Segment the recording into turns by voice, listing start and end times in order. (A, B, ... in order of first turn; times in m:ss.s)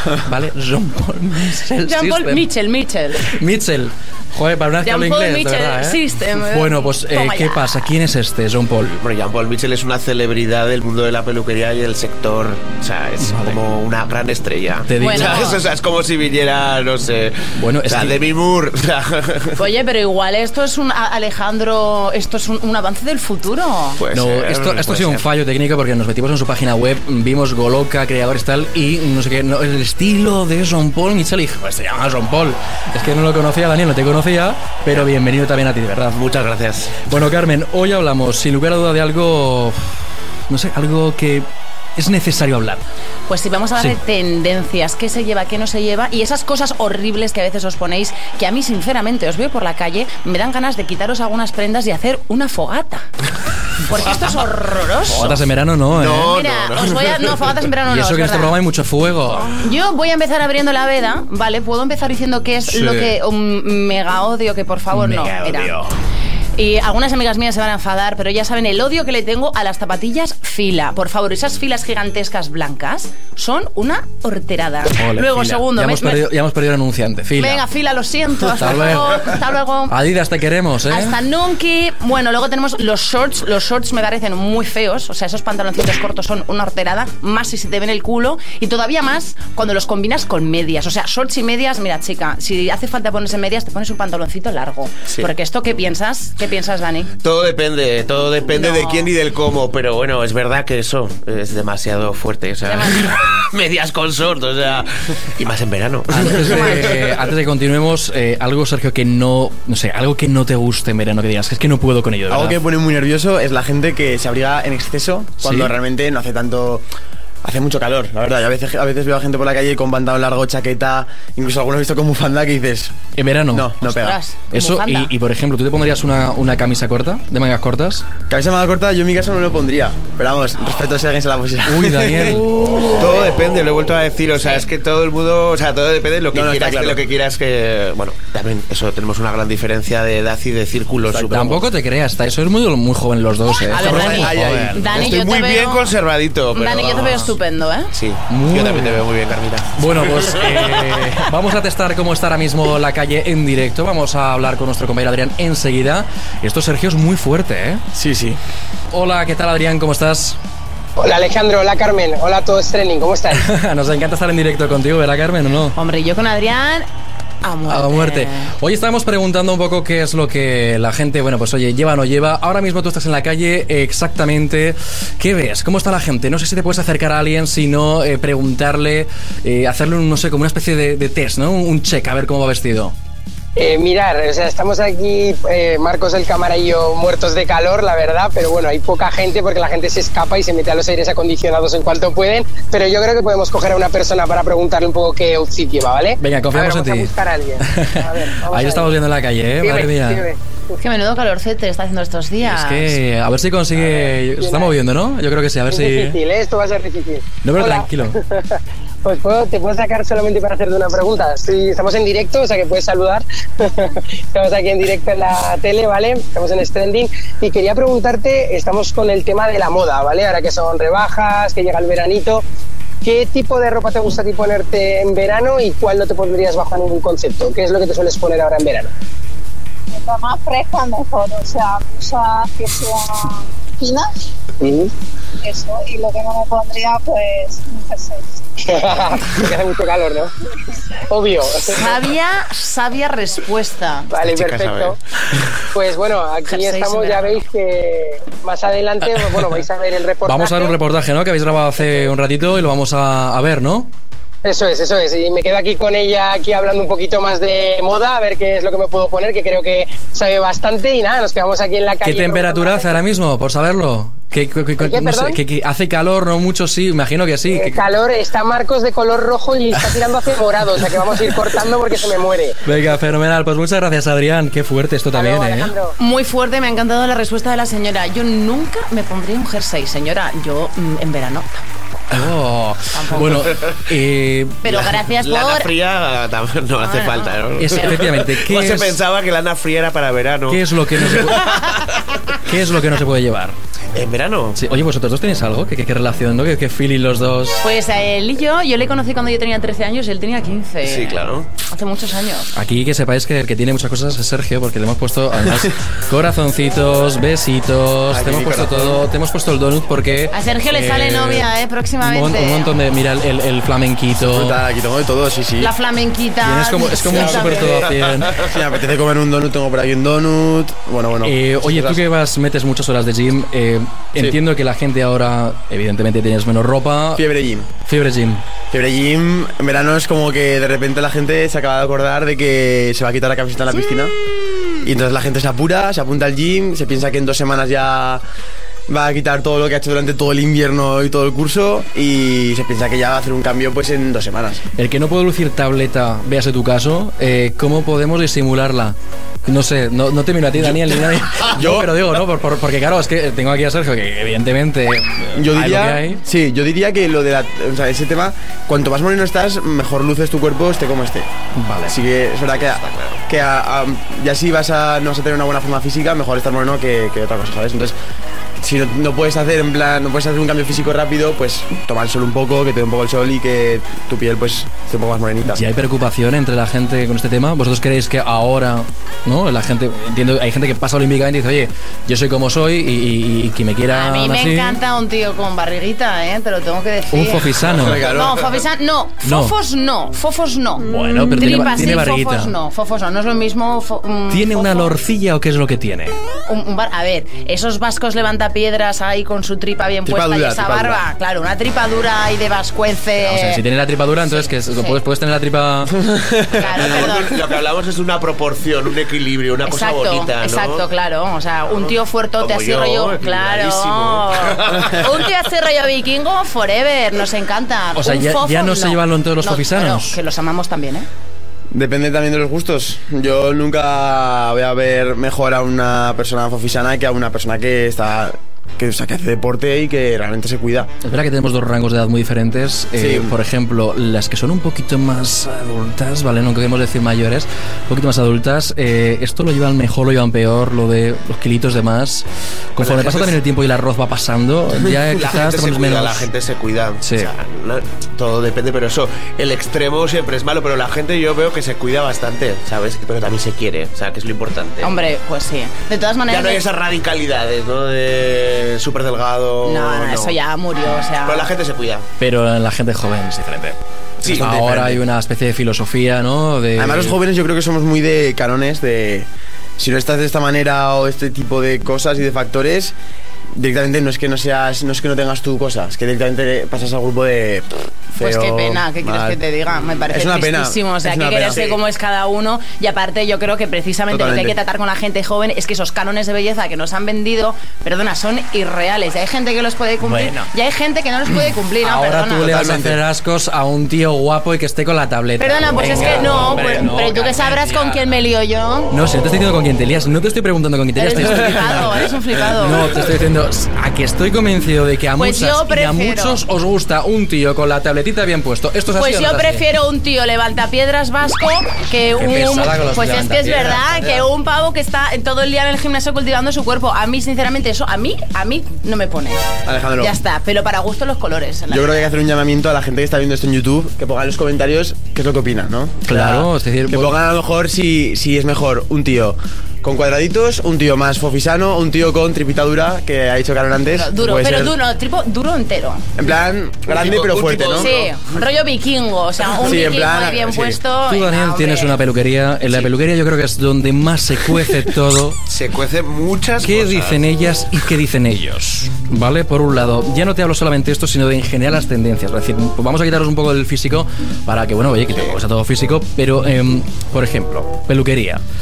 0:00.2-0:02.4 A
0:01.8-0:03.3 B
0:03.2-0:09.0 A
0:04.8-0:07.6 B
0:09.0-0:19.6 C
0:13.2-0:13.6 A
0:14.9-0:15.5 A
0:15.0-0:15.6 B
0:17.5-0:18.2 A
0:19.6-0:24.0 B
0:24.0-0:25.2 C
0:24.1-0:36.2 A
0:36.1-0:37.0 C
0:37.1-0:42.8 A
0:43.3-0:53.1 B
0:53.8-0:55.5 B
0:55.1-0:56.4 A
0:55.9-0:57.6 C
0:56.3-0:58.6 B
0:57.9-0:59.6 A
0:59.6-1:05.8 B
1:02.7-1:03.2 A
1:04.9-1:05.9 A
1:06.6-1:16.2 B
1:15.0-1:17.6 A
1:17.4-1:20.0 B
1:18.5-1:19.3 A
1:19.9-1:21.2 A
1:20.9-1:37.1 B
1:37.2-1:46.9 C
1:38.5-1:39.1 B
1:42.6-1:43.3 B
1:46.1-1:52.6 A
1:46.3-1:47.0 B
1:52.3-1:56.8 D
1:55.4-1:55.7 A
1:57.4-2:03.0 D
2:03.2-2:03.7 A
2:03.5-2:04.2 D
2:03.8-2:05.1 B
2:04.5-2:08.0 A
2:08.3-2:13.1 D
2:11.7-2:12.9 A
2:13.0-2:21.6 C
2:14.4-2:14.7 B
2:16.3-2:17.0 D
2:21.3-2:24.9 A
2:23.7-2:25.9 B
2:23.7-2:24.8 D
2:24.9-2:27.4 C
2:26.6-2:27.9 B
2:27.9-2:30.7 C
2:28.3-2:29.0 A
2:29.8-2:37.8 A
2:37.9-2:38.4 D
2:38.9-2:40.4 A
2:41.0-2:43.4 E
2:43.3-2:45.8 A
2:45.8-2:46.9 B
2:47.4-2:48.5 B
2:47.7-3:02.9 A
3:03.6-3:19.0 E
3:16.2-3:20.3 A
3:19.6-3:20.4 E
3:20.7-3:23.0 B
3:22.4-3:26.2 A
3:23.8-3:24.8 E
3:25.7-3:42.4 E
3:27.4-3:28.2 A
3:43.0-3:48.9 E
3:49.9-3:54.1 F
3:54.6-3:54.9 E
3:55.4-3:58.4 F
3:58.6-4:00.3 E
4:01.1-4:01.9 E
4:01.7-4:04.1 B
4:04.1-4:05.0 E
4:04.2-4:05.4 C
4:05.7-4:10.8 E
4:06.5-4:07.5 B
4:09.1-4:09.6 A
4:10.2-4:13.9 A
4:14.4-4:23.0 E
4:22.0-4:27.8 A
4:24.8-4:25.4 E
4:27.5-4:32.6 E
4:32.6-4:35.7 A
4:35.1-4:36.0 E
4:36.0-4:41.7 B
4:42.1-4:44.6 A
4:42.9-4:43.7 B
4:44.6-4:45.7 B
4:44.7-4:51.8 C
4:46.8-4:47.4 B
4:47.6-4:49.0 A
4:50.5-4:51.6 A
4:52.4-4:53.6 A
4:53.9-4:54.6 C
4:54.6-4:57.6 A
4:57.6-5:02.5 B
5:00.8-5:01.5 C
5:02.6-5:11.5 A
5:08.1-5:09.0 D
5:10.3-5:12.7 B
5:12.0-5:14.6 A
5:14.2-5:15.7 D
5:15.6-5:17.9 B
5:16.4-5:18.4 A
5:18.3-5:22.0 D
5:21.2-5:27.3 A
5:27.2-5:27.7 D
5:27.8-5:28.4 A
5:28.7-5:34.1 D
5:34.8-5:38.2 D
5:38.9-5:44.6 D
5:44.8-5:56.2 A
5:51.4-5:52.0 D
5:55.4-6:01.3 D
6:01.6-6:02.0 A
6:01.9-6:08.0 D
6:02.5-6:03.2 C
6:08.6-6:15.6 D
6:15.5-6:24.8 A
6:23.9-6:35.0 B
6:27.1-6:28.0 A
6:27.7-6:28.6 D
6:29.2-6:29.6 A
6:30.8-6:32.5 A
6:34.3-6:36.2 A
6:36.5-6:43.6 B
6:40.0-6:41.1 D
6:43.2-6:46.0 A
6:44.2-6:45.0 B
6:46.0-6:46.8 D
6:46.5-6:47.4 B
6:46.8-6:50.9 C
6:49.7-7:01.1 B
6:51.7-6:55.3 C
6:58.0-7:00.2 A
7:01.7-7:10.9 D
7:11.0-7:22.2 A
7:13.0-7:13.3 D
7:22.8-7:26.3 A
7:22.8-7:23.4 C
7:24.8-7:35.0 C
7:27.0-7:27.3 A
7:34.8-7:36.6 B
7:36.3-7:40.4 C
7:39.6-7:41.5 B
7:41.2-7:42.1 C
7:42.2-7:43.8 A
7:44.2-7:44.5 C
7:44.2-7:45.0 D
7:44.3-7:47.2 A
7:46.8-7:53.0 D
7:53.6-7:59.4 D
7:58.2-8:12.7 B
8:00.1-8:01.8 D
8:04.1-8:04.6 D
8:10.0-8:10.5 A
8:11.8-8:18.0 A
8:12.4-8:13.0 D
8:15.4-8:18.9 B
8:18.9-8:22.0 A
8:21.0-8:23.0 B
8:22.6-8:29.6 A
8:25.2-8:26.4 B
8:29.0-8:42.1 B
8:32.2-8:34.2 A
8:39.6-8:40.2 D
8:41.7-8:54.8 D
8:46.0-8:47.1 A
8:53.9-8:56.1 B
8:56.2-8:57.9 D
8:56.9-8:58.2 C
8:57.8-9:02.0 B
8:59.6-9:00.8 D
9:01.1-9:05.4 A
9:05.5-9:07.3 C
9:06.6-9:18.4 A
9:15.1-9:15.4 C